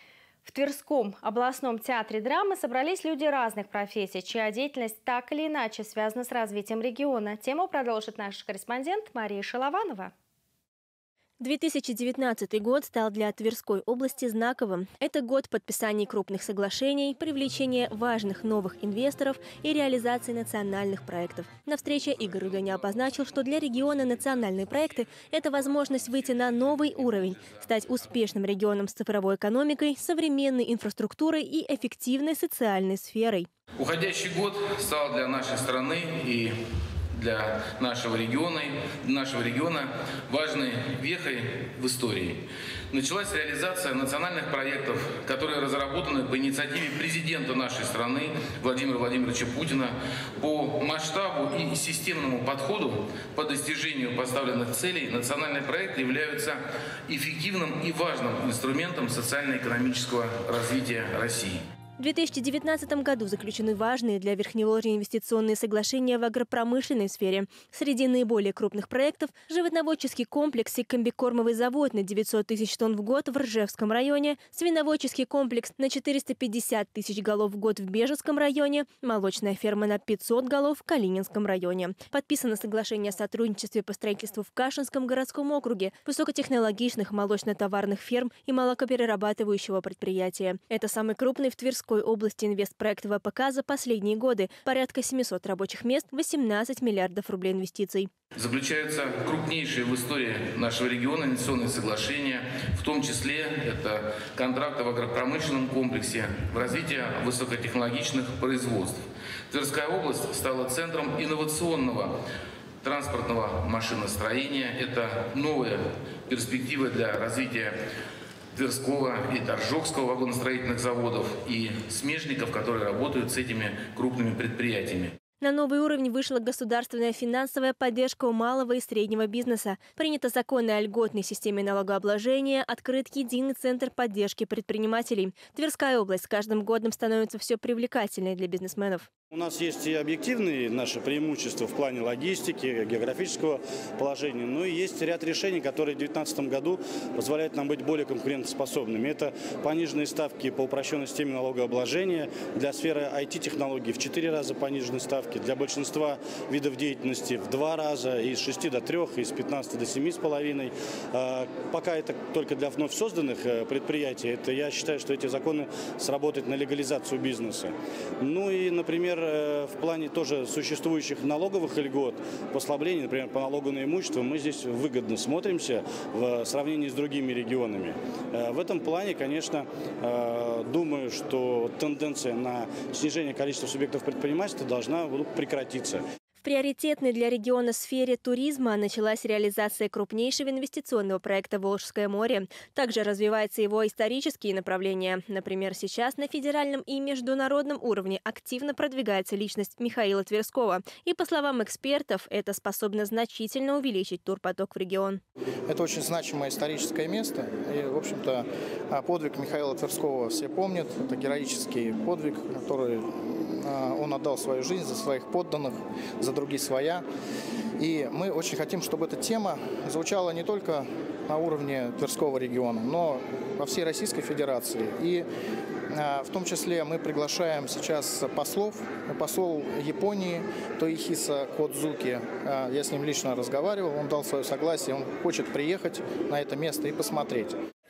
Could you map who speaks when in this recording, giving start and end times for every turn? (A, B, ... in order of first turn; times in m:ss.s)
0:00.4-0:10.1 A
0:11.4-0:33.5 B
0:33.8-0:36.6 C
0:37.1-1:01.6 C
1:02.0-1:38.1 B
1:38.4-1:52.2 C
1:52.8-1:57.8 C
1:58.6-2:05.1 C
2:05.4-2:19.1 B
2:19.3-3:06.0 D
3:06.4-3:25.2 B
3:25.7-3:37.0 E
3:37.8-3:45.3 E
3:45.9-3:57.6 E